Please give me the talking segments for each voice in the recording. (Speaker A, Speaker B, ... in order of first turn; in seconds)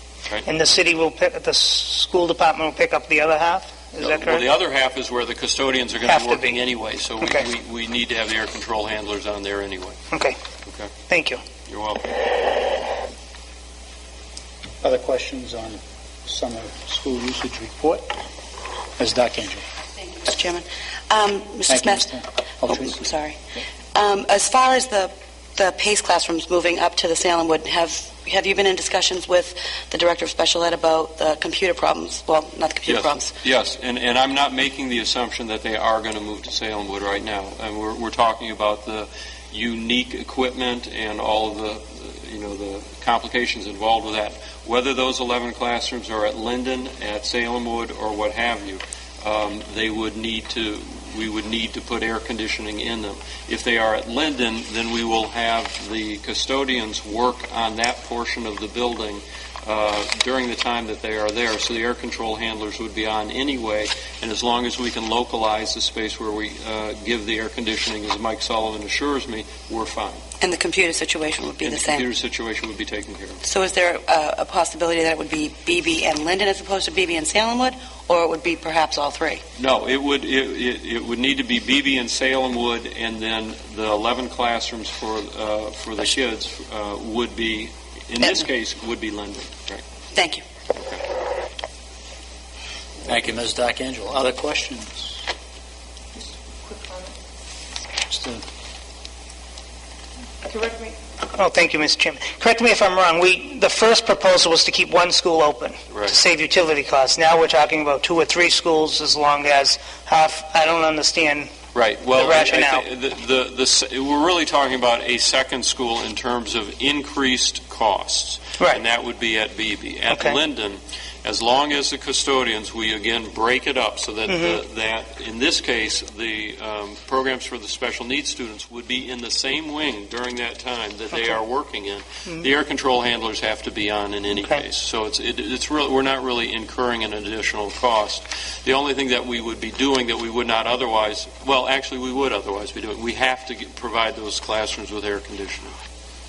Speaker A: 0.5-4.5, 6.0-6.7, 7.2-7.5, 10.1-10.4, 11.1-11.4, 100.5-111.5, 112.1-112.9, 120.1-120.4, 124.3-124.6, 134.4-134.6
Speaker B: 4.0-10.0, 10.7-10.9, 11.7-12.2, 32.9-70.2, 71.6-73.4, 79.6-89.8, 105.9-106.2, 111.7-145.8
Speaker C: 14.8-18.2, 19.0-19.6, 21.7-23.0, 93.0-95.2, 98.1-98.4
Speaker D: 20.1-22.0, 22.7-23.4, 23.9-33.3, 70.4-72.0, 73.5-79.4, 90.1-90.4